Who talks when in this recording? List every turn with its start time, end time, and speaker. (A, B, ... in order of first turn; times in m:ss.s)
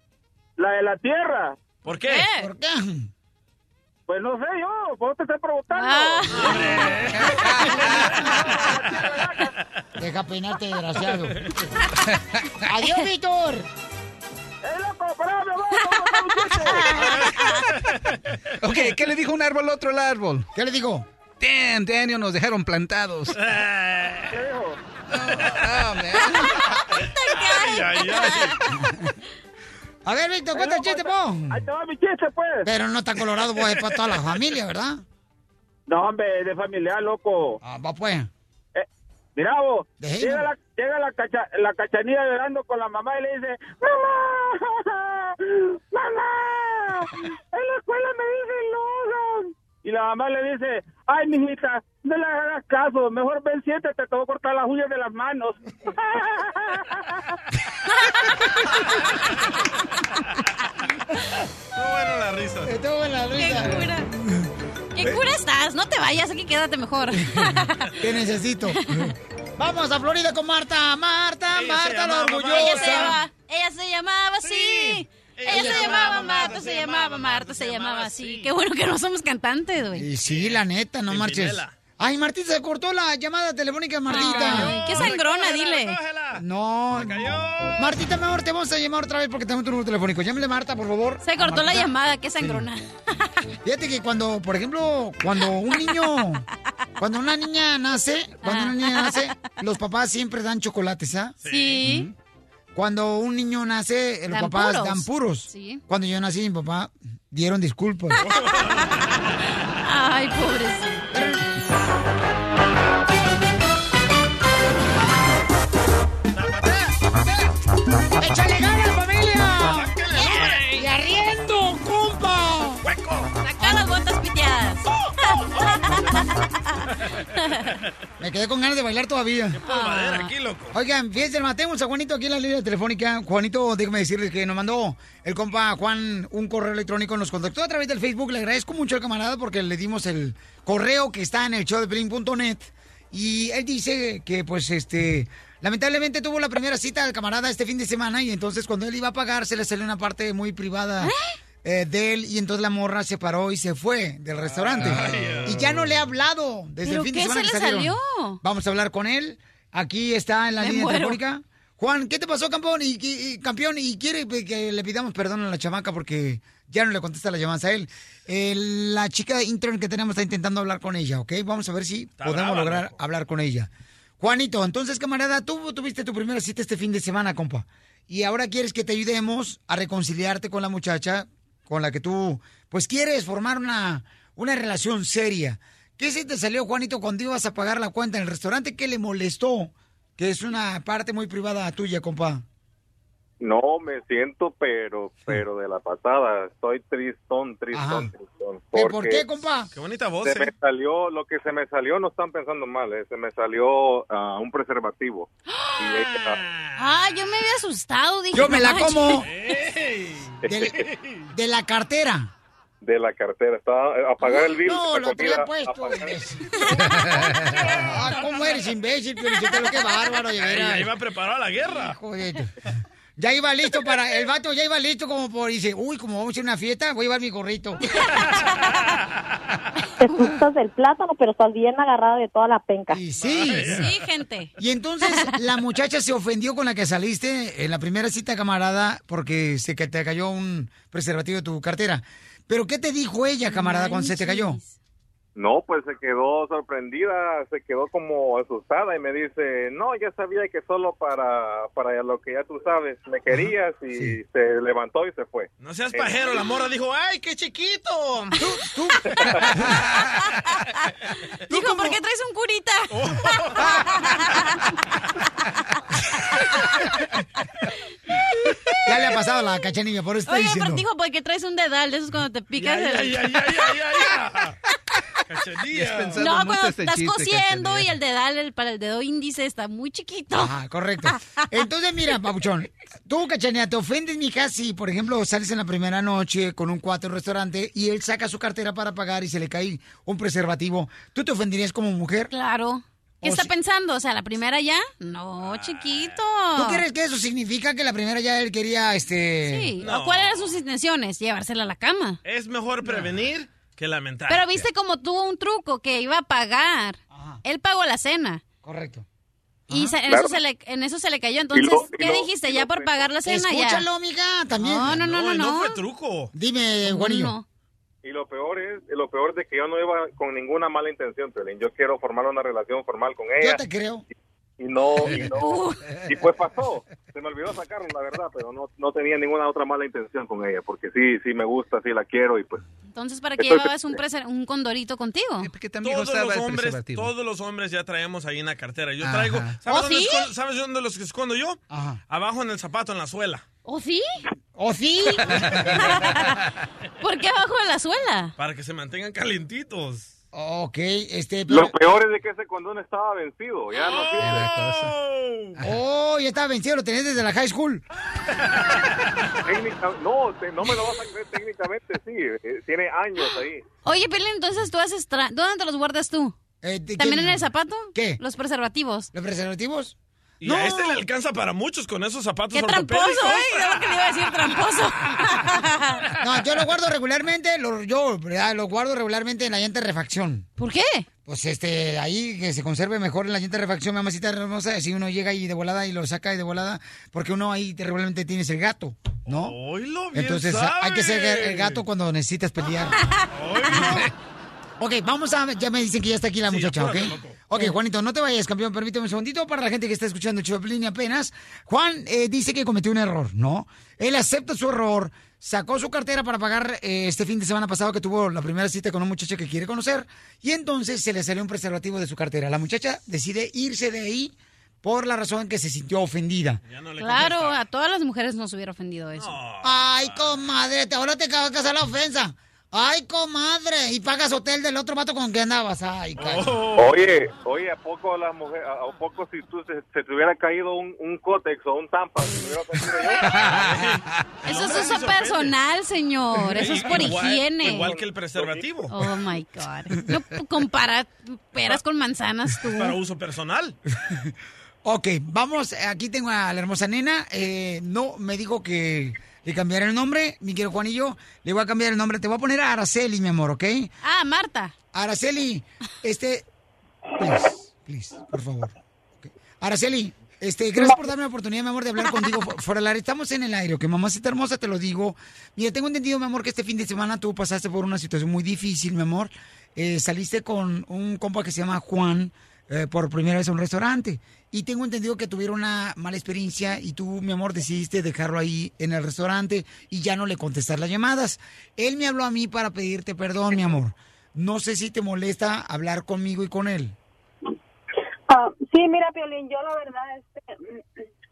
0:00.6-0:01.5 A
0:01.8-0:02.2 B
0:02.1-0:02.5 C
0:02.4-0:03.1 D
0:04.1-0:06.1 A
0:05.7-0:06.9 C
0:06.3-0:07.3 B
0:07.1-0:08.1 E
0:08.1-0:09.4 A
0:10.0-0:11.4 D
0:12.6-0:13.7 D
0:14.6-0:16.8 A
0:15.8-0:17.6 C
0:16.9-0:17.8 B
0:18.6-0:20.5 E
0:20.5-0:21.0 D
0:21.4-0:23.4 E
0:23.4-0:24.3 B
0:24.3-0:24.7 A
0:25.1-0:26.4 E
0:26.2-0:28.7 C
0:26.9-0:28.6 B
0:30.0-0:31.6 D
0:30.6-0:32.6 A
0:32.6-0:35.0 D
0:33.5-0:34.2 B
0:35.9-0:37.6 A
0:37.6-0:38.3 D
0:39.4-0:44.7 A
0:40.0-0:40.5 D
0:45.9-0:46.8 A
0:47.5-0:55.5 A
0:57.9-0:58.5 C
1:01.7-1:02.7 B
1:02.6-1:04.0 D
1:03.4-1:04.1 C
1:05.0-1:07.9 C
1:08.0-1:08.8 D
1:08.8-1:09.1 C
1:09.6-1:13.2 D
1:11.5-1:13.2 B
1:12.5-1:20.1 C
1:14.4-1:18.5 B
1:15.5-1:16.1 D
1:19.9-1:25.0 D
1:20.2-1:21.7 B
1:24.1-1:26.0 C
1:24.1-1:27.8 B
1:26.4-1:27.2 D
1:27.8-1:32.6 D
1:31.2-1:33.3 C
1:33.6-1:36.4 D
1:37.0-1:41.3 D
1:38.4-1:39.3 C
1:41.4-1:41.8 B
1:41.5-1:42.1 C
1:42.7-1:48.2 D
1:44.3-1:45.8 C
1:48.2-1:49.2 B
1:49.8-1:51.1 C
1:51.1-1:51.4 D
1:56.3-1:57.0 B
1:58.2-2:02.8 D
1:59.6-2:00.9 B
2:02.8-2:03.3 B
2:03.4-2:06.8 C
2:08.2-2:09.6 D
2:09.6-2:10.7 B
2:09.6-2:10.3 C
2:10.7-2:31.1 D
2:31.6-3:12.4 D
2:34.5-2:35.7 B
2:34.9-2:35.3 E
2:36.8-2:38.4 C
2:40.6-2:41.2 C
2:52.2-2:53.0 B
3:13.4-3:19.2 F
3:17.7-3:18.1 D
3:18.7-3:19.7 D
3:19.7-3:20.5 B
3:20.2-3:25.3 F
3:25.8-3:26.4 F
3:25.9-3:26.8 B
3:26.8-3:29.1 C
3:28.3-3:29.3 D
3:29.3-3:31.2 B
3:30.5-3:32.3 D
3:32.8-3:36.1 F
3:34.2-3:36.4 D
3:37.7-3:38.6 B
3:37.7-3:40.9 D
3:40.4-3:42.0 B
3:41.7-3:42.5 D
3:43.2-3:47.8 D
3:52.9-3:53.9 D
3:53.2-3:53.9 B
3:53.7-3:54.5 C
3:54.6-4:04.6 D
4:03.5-4:04.8 C
4:05.4-4:16.1 F
4:15.6-4:18.4 B
4:18.4-4:19.7 D
4:21.5-4:22.0 D
4:21.5-4:23.0 C
4:22.9-4:23.8 B
4:24.0-4:24.5 C
4:28.8-4:30.8 D
4:30.3-4:33.4 C
4:32.6-4:34.6 B
4:35.3-4:36.2 B
4:35.7-4:37.9 E
4:36.2-4:40.5 C
4:40.3-4:52.3 D
4:41.1-4:41.4 C
4:52.3-4:56.8 C
4:53.2-4:53.5 D
4:55.4-4:56.2 B
4:56.5-4:59.7 D
4:59.5-5:02.2 C
4:59.8-5:00.6 B
5:02.2-5:04.6 B
5:04.3-5:08.4 C
5:07.1-5:07.4 D
5:08.6-5:09.0 D
5:09.7-5:10.0 D
5:09.7-5:13.8 C
5:11.5-5:13.1 F
5:13.2-5:15.0 D
5:14.6-5:15.8 C
5:14.8-5:16.3 B
5:16.3-5:17.3 D
5:16.8-5:17.4 C
5:18.0-5:23.6 F
5:23.4-5:24.0 D
5:24.6-5:32.6 F
5:25.4-5:25.8 C
5:32.9-5:35.5 C
5:33.4-5:33.7 F
5:35.4-5:37.1 E
5:35.8-5:43.4 B
5:39.0-5:39.6 E
5:39.7-5:40.3 C
5:41.7-5:42.0 D
5:43.6-5:44.2 C
5:44.6-5:45.4 D
5:45.9-5:46.3 C
5:47.0-5:48.3 C
5:48.4-5:50.1 B
5:50.3-5:51.8 D
5:51.5-5:54.3 F
5:53.8-5:55.6 B
5:54.2-5:54.9 E
5:55.6-5:57.8 D
5:59.4-6:03.6 F
6:03.8-6:06.3 C
6:06.6-6:08.2 D
6:07.0-6:09.1 C
6:09.1-6:11.0 D
6:10.4-6:14.1 B
6:12.5-6:16.0 C
6:16.2-6:20.4 D
6:20.6-6:21.0 C
6:21.2-6:29.6 D
6:29.3-6:31.8 B
6:30.1-6:33.0 D
6:33.3-6:34.1 B
6:34.8-6:56.6 D
6:36.5-6:37.5 B
6:56.7-6:57.6 B
6:57.0-6:59.4 C
6:59.2-7:00.4 B
6:59.6-7:06.6 D
7:06.2-7:07.0 B
7:06.8-7:13.2 F
7:13.3-7:15.5 B
7:14.4-7:17.9 C
7:16.5-7:19.0 B
7:17.8-7:18.6 F
7:18.9-7:22.9 C
7:22.6-7:23.8 B
7:24.8-7:33.9 D
7:34.0-7:34.7 C
7:34.9-7:36.4 D
7:37.2-8:07.0 D
8:08.3-8:10.4 G